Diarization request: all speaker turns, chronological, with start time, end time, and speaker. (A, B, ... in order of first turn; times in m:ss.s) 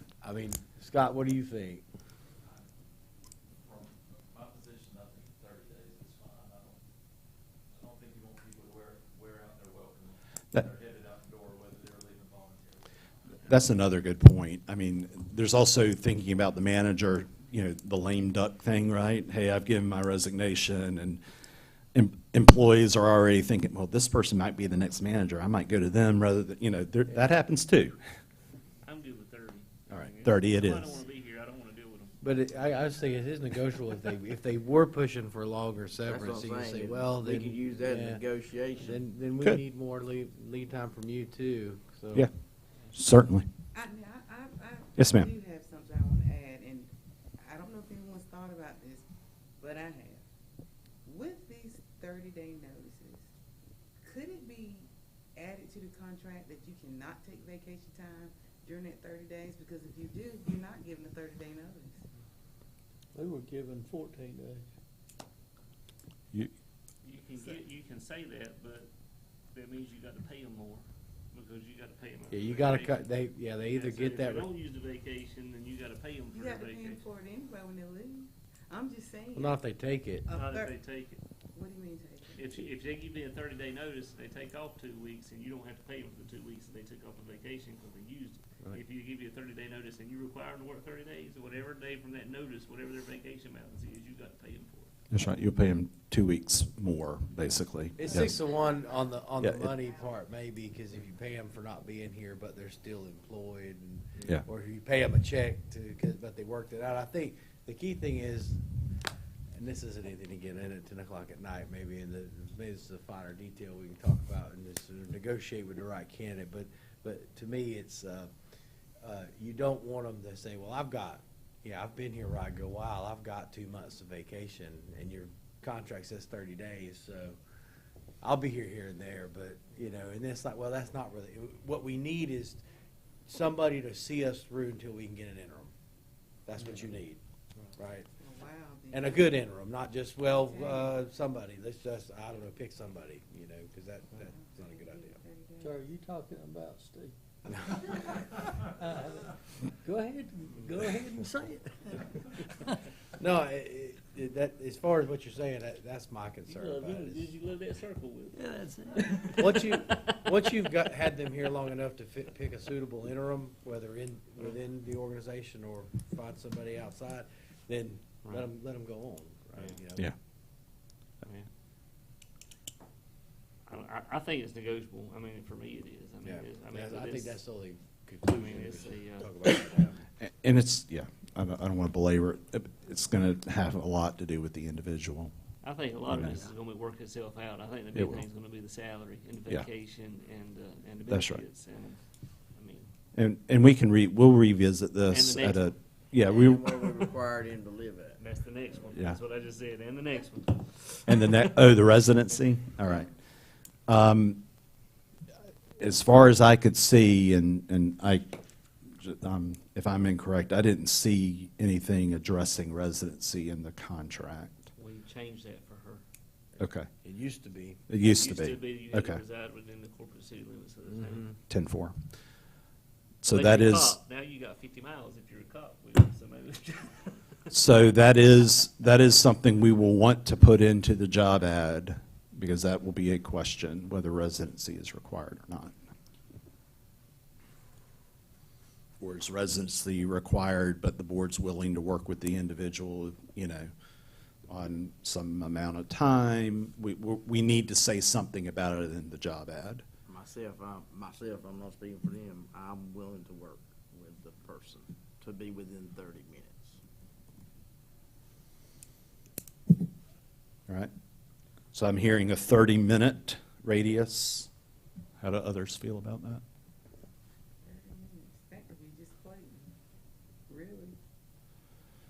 0:00.2-0:01.8 A
0:03.6-0:06.8 B
0:07.7-0:13.4 B
0:13.4-0:21.2 C
0:21.9-0:28.0 C
0:28.8-0:32.2 D
0:29.9-0:31.0 C
0:32.2-0:38.2 A
0:36.0-0:39.0 E
0:38.8-0:42.3 A
0:42.9-0:43.5 C
0:43.7-0:49.0 F
0:45.0-0:45.3 C
0:49.6-0:50.2 F
0:51.0-0:53.3 F
0:54.0-1:02.0 F
1:03.1-1:04.6 G
1:07.0-1:08.9 D
1:09.5-1:17.0 D
1:12.3-1:14.5 A
1:16.3-1:19.6 F
1:19.3-1:20.3 A
1:20.2-1:20.7 F
1:20.3-1:21.2 D
1:21.5-1:22.5 F
1:22.4-1:34.9 D
1:35.1-1:38.4 C
1:38.0-1:48.6 A
1:38.4-1:38.8 F
1:39.4-1:39.7 C
1:49.6-1:58.3 A
1:59.0-2:07.4 A
2:08.2-2:12.6 A
2:13.3-2:15.7 A
2:16.5-2:17.2 A
2:17.8-2:18.1 A
2:18.2-2:19.4 F
2:18.9-2:25.2 A
2:20.4-2:20.9 F
2:24.3-2:25.7 F
2:25.6-2:27.1 G
2:27.7-2:32.8 G
2:33.1-2:37.3 A
2:36.5-2:40.1 D
2:38.4-2:39.8 G
2:39.2-2:50.1 A
2:51.2-2:51.5 D
2:53.7-2:57.4 D
2:56.2-3:00.0 A
2:58.3-2:59.5 D
3:00.2-3:05.3 C
3:05.6-3:12.0 D
3:06.1-3:06.4 C
3:07.9-3:08.2 C
3:11.1-3:11.4 C
3:12.5-3:12.9 D
3:13.1-3:17.1 C
3:15.1-3:15.7 D
3:16.2-3:18.2 E
3:18.2-3:21.4 D
3:18.9-3:19.2 C
3:21.0-3:23.1 C
3:23.9-3:24.4 C
3:25.8-3:28.4 C
3:28.9-3:34.7 C
3:34.8-3:36.0 D
3:36.6-3:36.9 C
3:37.0-3:37.8 A
3:37.9-3:39.2 C
3:38.0-3:41.3 D
3:40.9-3:41.3 A
3:41.5-3:42.0 C
3:43.2-3:44.0 C
3:43.3-3:47.2 D
3:47.5-3:55.7 C
3:59.0-4:03.7 C
4:04.5-4:09.8 C
4:10.1-4:16.8 E
4:21.7-4:24.5 C
4:25.2-4:26.4 C
4:27.6-4:29.8 F
4:30.5-4:31.0 F